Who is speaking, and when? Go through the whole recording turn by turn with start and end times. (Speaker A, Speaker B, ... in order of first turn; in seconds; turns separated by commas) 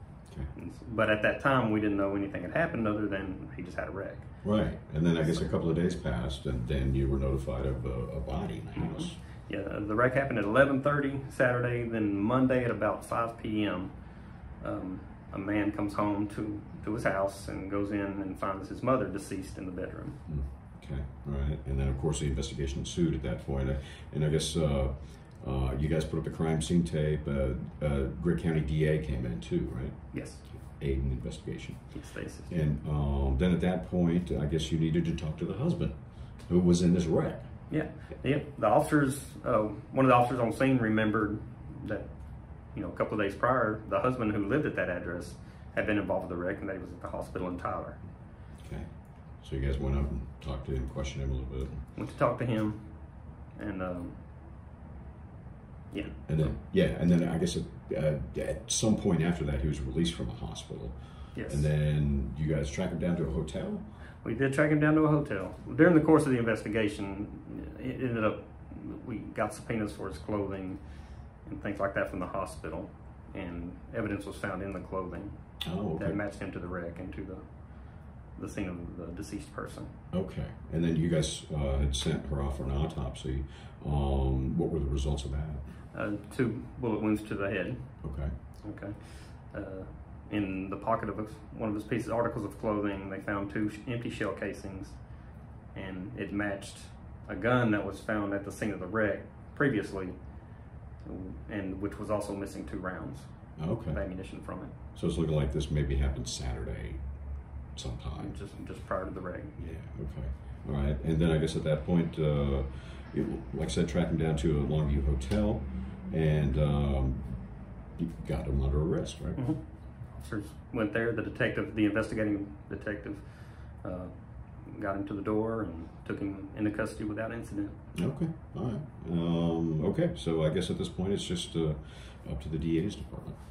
Speaker A: 0.3-0.5, Speaker B: 0.5-5.5, Speaker A: 4.4-9.2, Speaker B: 8.7-20.2, Speaker A: 20.2-37.7, Speaker B: 30.1-30.4, Speaker B: 31.9-32.5, Speaker B: 37.7-48.1, Speaker A: 48.6-51.8, Speaker B: 51.9-54.2, Speaker B: 55.9-56.5, Speaker A: 56.2-64.0, Speaker B: 61.3-61.7, Speaker B: 64.2-80.0, Speaker A: 75.6-76.2, Speaker A: 80.1-85.8, Speaker B: 85.9-104.8, Speaker A: 88.0-88.3, Speaker A: 103.6-108.4, Speaker B: 108.2-109.7, Speaker A: 109.6-119.4, Speaker B: 119.3-128.0, Speaker A: 127.9-133.4